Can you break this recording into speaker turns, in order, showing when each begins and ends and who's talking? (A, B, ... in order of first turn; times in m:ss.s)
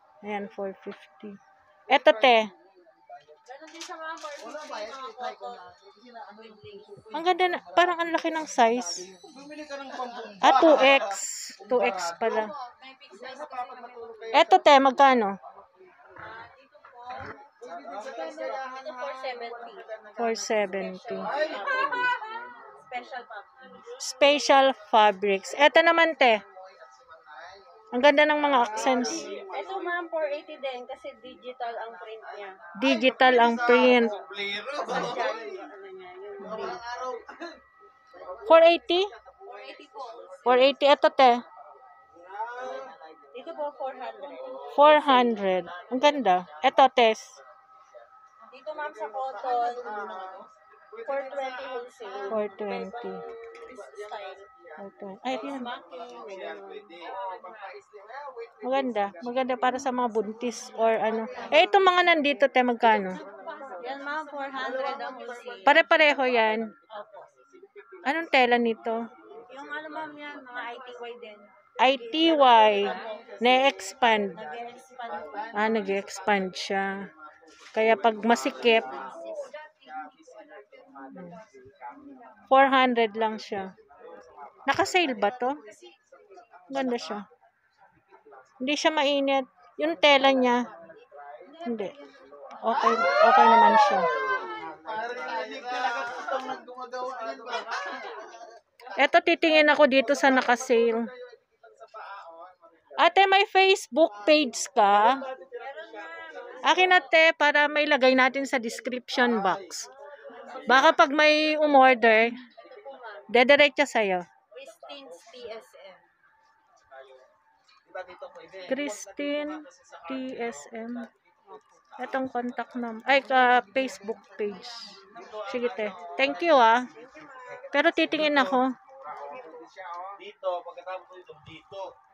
0:00.2-0:01.4 A
0:01.9-0:02.5 A
0:03.4-0:07.1 B
0:07.1-0:09.1 A
0:09.3-0:10.6 C
0:10.4-0:12.5 A
0:12.6-0:14.3 B
0:14.3-0:15.4 A
0:16.1-0:19.9 B
0:17.8-0:18.7 C
0:20.2-0:21.4 A
0:20.5-0:23.9 B
0:21.4-0:21.8 C
0:23.8-0:26.4 A
0:27.9-0:29.3 A
0:29.2-0:29.7 C
0:29.2-0:32.7 B
0:32.8-0:34.2 A
0:33.4-0:35.4 C
0:34.8-0:36.8 B
0:38.4-0:39.1 A
0:39.4-0:40.7 B
0:40.4-0:41.4 A
0:42.5-0:42.9 C
0:43.3-0:45.6 B
0:44.7-0:47.4 A
0:48.4-0:50.4 B
0:49.9-0:50.4 C
0:51.0-0:54.5 B
0:52.3-0:53.2 A
0:54.8-0:55.7 A
0:55.3-0:57.5 B
0:56.2-0:58.2 C
0:58.6-1:03.2 A
1:03.0-1:05.9 B
1:05.6-1:06.7 A
1:06.9-1:07.3 B
1:08.0-1:09.1 A
1:09.5-1:13.2 B
1:11.8-1:14.4 A
1:14.3-1:15.6 B
1:15.5-1:17.1 A
1:17.7-1:19.0 A
1:18.5-1:21.0 B
1:18.7-1:19.3 C
1:20.1-1:21.4 C
1:21.1-1:21.4 A
1:22.5-1:23.7 A
1:23.8-1:24.3 C
1:24.6-1:25.6 A
1:26.7-1:27.3 A
1:28.6-1:30.7 A
1:31.6-1:32.0 A
1:32.6-1:34.1 A
1:34.1-1:36.4 B
1:34.4-1:37.8 C
1:37.9-1:38.1 B
1:38.9-1:41.1 A
1:41.6-1:42.6 C
1:43.0-1:45.2 A
1:45.4-1:47.1 B
1:46.6-1:49.9 A
1:50.6-1:52.4 A
1:52.6-1:53.3 B
1:53.3-1:54.2 A
1:54.5-1:56.0 B
1:57.9-1:58.8 C
1:58.7-2:01.1 A
2:02.0-2:06.9 A
2:05.1-2:06.2 C
2:06.9-2:07.7 B
2:07.7-2:08.8 A
2:10.2-2:11.9 C